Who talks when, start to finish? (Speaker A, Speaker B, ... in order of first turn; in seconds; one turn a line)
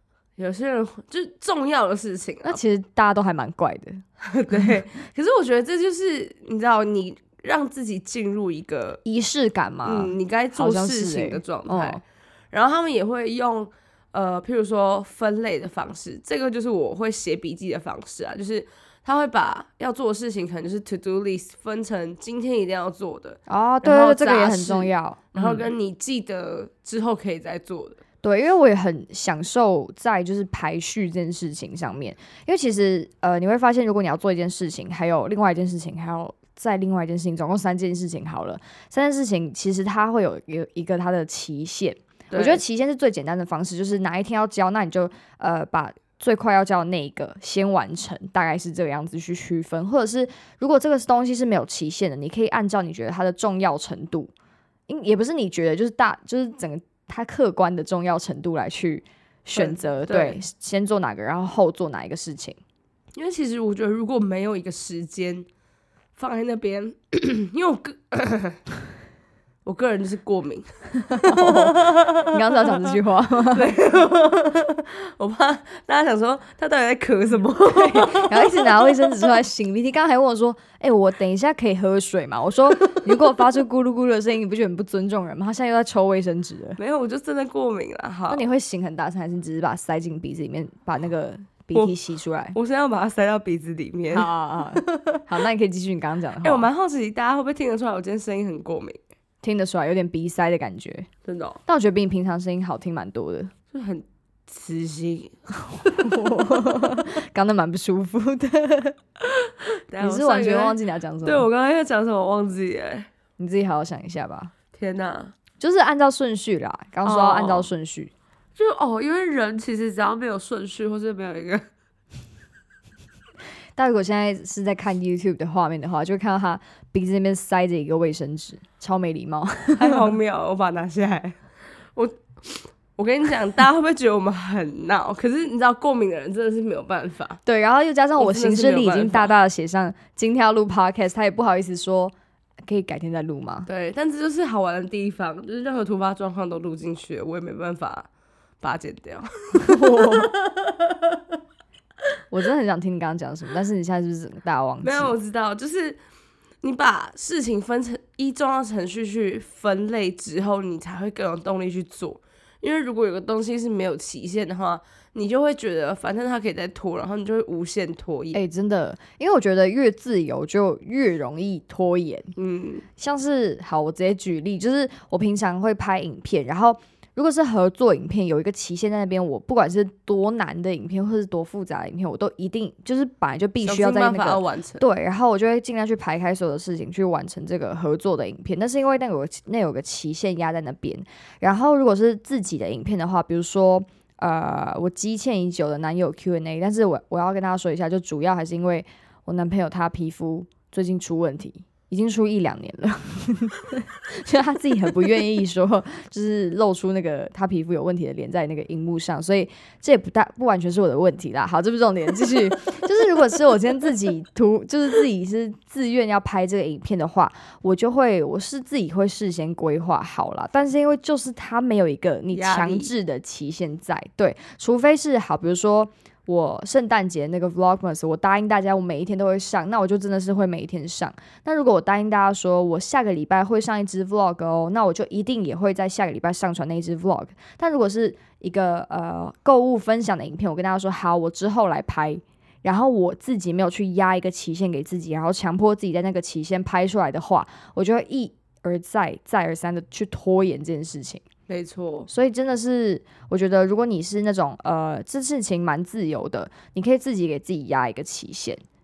Speaker A: 0.4-2.6
Speaker B: 2.4-4.7
Speaker A: 4.2-9.0
Speaker B: 9.1-12.0
Speaker A: 9.8-28.0
Speaker B: 23.5-25.7
Speaker B: 28.2-54.3
Speaker A: 42.3-42.6
Speaker B: 54.9-62.6
Speaker A: 59.5-60.4
Speaker A: 63.2-65.5
Speaker A: 66.2-68.6
Speaker A: 69.7-72.7
Speaker B: 71.1-73.7
Speaker A: 73.5-79.2
Speaker B: 77.6-86.8
Speaker A: 86.8-88.4
Speaker B: 88.3-92.6
Speaker A: 92.5-95.2
Speaker B: 94.1-96.7
Speaker A: 96.4-99.0
Speaker B: 99.4-101.1
Speaker A: 101.2-101.6
Speaker B: 101.7-103.5
Speaker A: 103.7-106.3
Speaker B: 105.8-109.0
Speaker A: 109.2-113.1
Speaker B: 110.0-111.5
Speaker B: 113.4-114.5
Speaker A: 114.7-115.3
Speaker B: 115.6-118.1
Speaker A: 117.0-117.7
Speaker A: 118.6-121.7
Speaker B: 123.8-130.1
Speaker A: 129.8-131.4
Speaker A: 131.9-137.4
Speaker B: 137.4-142.1
Speaker A: 138.2-139.3
Speaker B: 142.7-143.7
Speaker A: 143.7-148.1
Speaker A: 148.6-151.2
Speaker B: 149.6-150.3
Speaker B: 152.3-155.1
Speaker A: 154.8-156.0
Speaker A: 156.6-168.4
Speaker B: 168.3-172.3
Speaker A: 172.4-172.8
Speaker B: 173.0-251.2
Speaker A: 183.6-184.8
Speaker A: 222.3-222.9
Speaker A: 251.5-252.1
Speaker B: 252.1-258.6